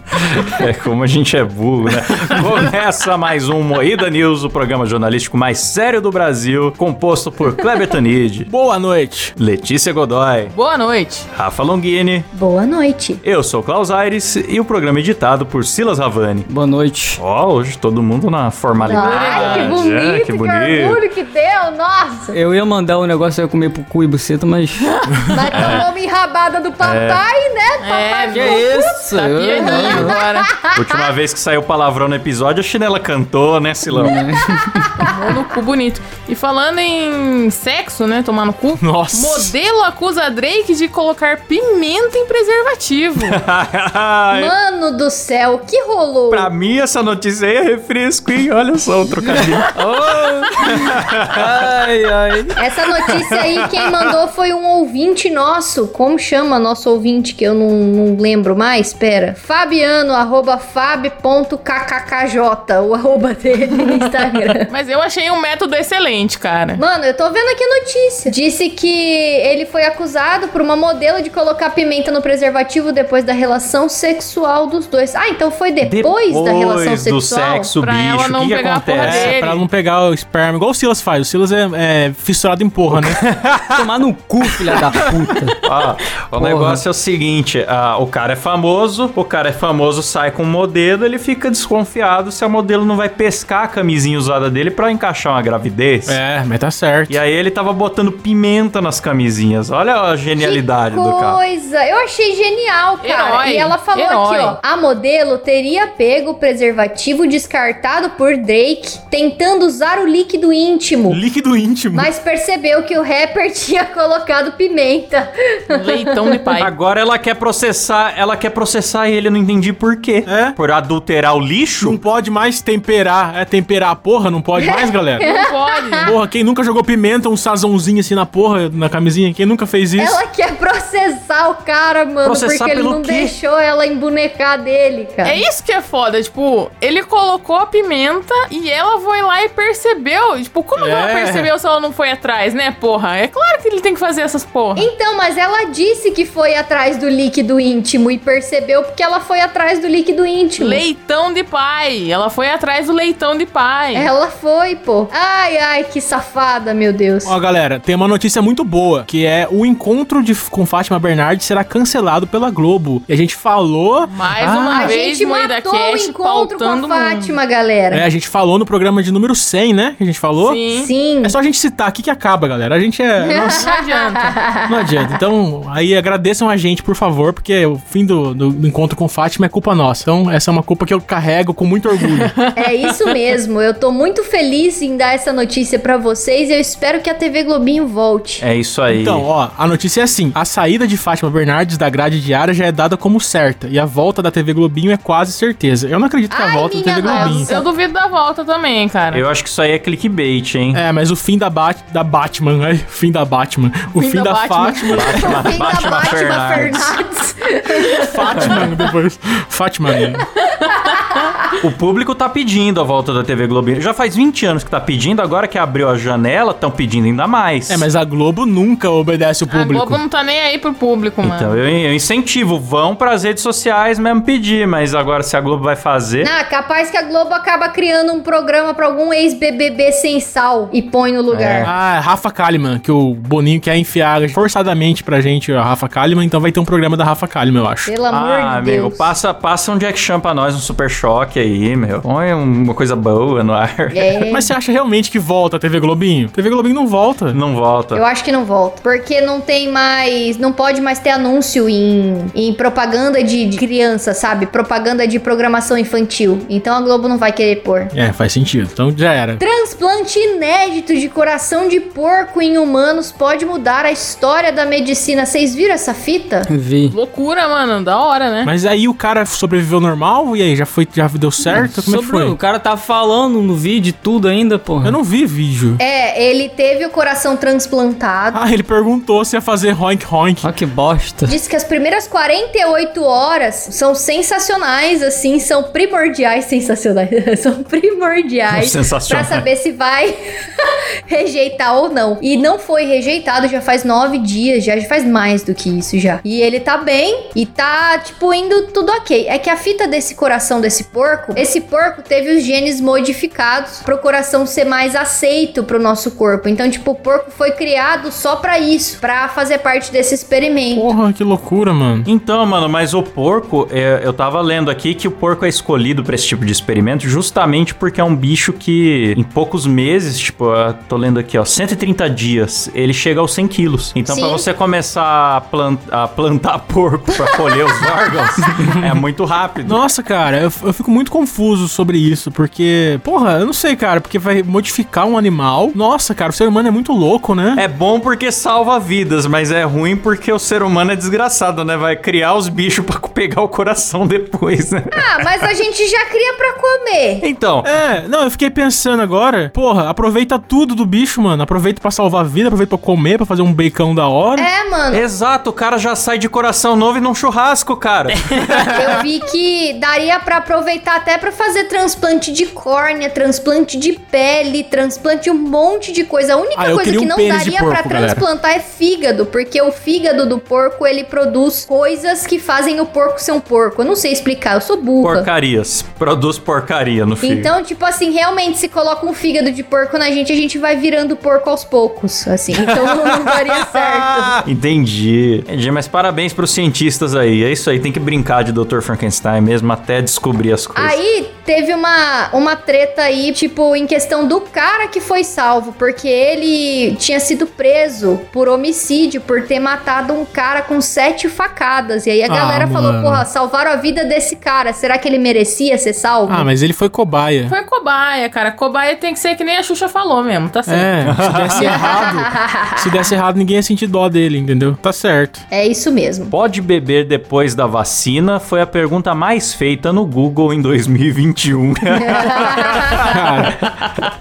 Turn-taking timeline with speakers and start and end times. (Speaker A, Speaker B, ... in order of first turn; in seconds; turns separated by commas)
Speaker A: 0.2-8.5, Speaker B: 8.5-9.3, Speaker A: 9.4-10.5, Speaker C: 10.5-11.3, Speaker A: 11.3-12.3, Speaker D: 12.3-13.2, Speaker A: 13.2-16.5, Speaker E: 16.5-17.2, Speaker A: 17.2-21.0, Speaker D: 18.8-22.4, Speaker C: 18.9-19.8, Speaker E: 22.3-24.9, Speaker D: 25.3-30.8, Speaker A: 25.6-25.9, Speaker A: 26.8-27.2, Speaker C: 27.8-30.5, Speaker E: 28.3-30.2, Speaker A: 30.7-34.3, Speaker E: 33.9-35.1, Speaker C: 35.0-43.4, Speaker B: 38.8-39.5, Speaker A: 43.2-44.5, Speaker D: 44.4-46.5, Speaker A: 46.3-49.7, Speaker E: 49.3-52.6, Speaker A: 50.7-51.8, Speaker D: 52.6-64.7, Speaker C: 64.7-66.8, Speaker D: 66.8-77.7, Speaker A: 75.8-79.4, Speaker C: 77.8-79.7, Speaker B: 79.0-83.3, Speaker A: 82.9-83.9, Speaker E: 83.7-85.6, Speaker A: 84.5-96.2, Speaker E: 86.3-86.8, Speaker B: 96.1-97.2, Speaker A: 97.1-101.4, Speaker D: 100.4-111.2, Speaker C: 103.0-104.6, Speaker B: 111.1-112.1, Speaker D: 111.9-116.4, Speaker C: 115.7-116.7, Speaker A: 116.6-122.0, Speaker B: 120.3-120.6, Speaker B: 121.8-125.3, Speaker D: 124.6-126.2, Speaker C: 125.2-126.1, Speaker B: 126.0-130.2, Speaker D: 130.0-135.4, Speaker A: 132.2-133.3, Speaker C: 135.2-144.9, Speaker B: 140.8-141.5, Speaker D: 144.8-150.8, Speaker C: 150.6-154.1, Speaker D: 153.9-157.3, Speaker B: 157.2-164.9, Speaker C: 164.1-167.4, Speaker D: 164.7-168.0, Speaker B: 167.9-170.6, Speaker C: 170.4-170.9, Speaker D: 170.8-171.4, Speaker B: 171.2-173.7, Speaker D: 173.2-174.7, Speaker C: 173.6-174.4, Speaker B: 174.7-182.3, Speaker C: 182.4-182.7, Speaker D: 182.6-188.4, Speaker A: 188.4-189.3, Speaker B: 188.9-197.5, Speaker D: 196.3-197.7, Speaker C: 197.0-199.2, Speaker A: 199.1-200.8, Speaker B: 200.7-205.2, Speaker C: 204.0-205.4, Speaker A: 204.9-207.0, Speaker D: 205.1-208.8, Speaker B: 208.0-210.2, Speaker C: 210.7-211.2, Speaker A: 211.6-217.9, Speaker B: 217.7-220.0, Speaker C: 219.5-221.6, Speaker A: 221.2-226.3, Speaker D: 226.2-231.7, Speaker A: 231.3-231.7, Speaker B: 231.6-237.9, Speaker D: 237.9-239.1, Speaker A: 238.1-244.1, Speaker D: 243.9-244.5, Speaker B: 244.3-247.4, Speaker A: 247.3-248.0, Speaker D: 247.9-257.9, Speaker B: 257.9-259.4, Speaker D: 259.4-266.5, Speaker E: 266.5-266.9, Speaker C: 266.9-268.5, Speaker B: 268.4-272.4, Speaker E: 271.4-275.0, Speaker B: 274.8-275.8, Speaker D: 275.8-278.4, Speaker B: 278.3-280.5, Speaker E: 280.4-281.4, Speaker D: 281.3-290.2, Speaker A: 288.5-289.5, Speaker D: 291.1-310.9, Speaker B: 310.7-312.1, Speaker A: 312.1-329.8, Speaker D: 324.1-324.5, Speaker B: 329.6-337.6, Speaker A: 337.6-345.2, Speaker D: 345.0-347.2, Speaker A: 347.2-347.7, Speaker B: 347.6-354.5, Speaker D: 354.4-355.0, Speaker A: 354.9-358.4, Speaker D: 358.6-375.3, Speaker B: 366.6-368.2, Speaker A: 375.0-377.5, Speaker D: 377.2-384.4, Speaker A: 382.9-391.0, Speaker D: 390.8-406.5, Speaker B: 402.3-403.3, Speaker B: 406.3-407.6, Speaker C: 407.5-411.0, Speaker B: 410.7-415.4, Speaker A: 411.0-411.8, Speaker D: 411.6-412.9, Speaker D: 415.5-416.3, Speaker A: 416.3-423.1, Speaker D: 422.2-422.7, Speaker B: 423.1-423.7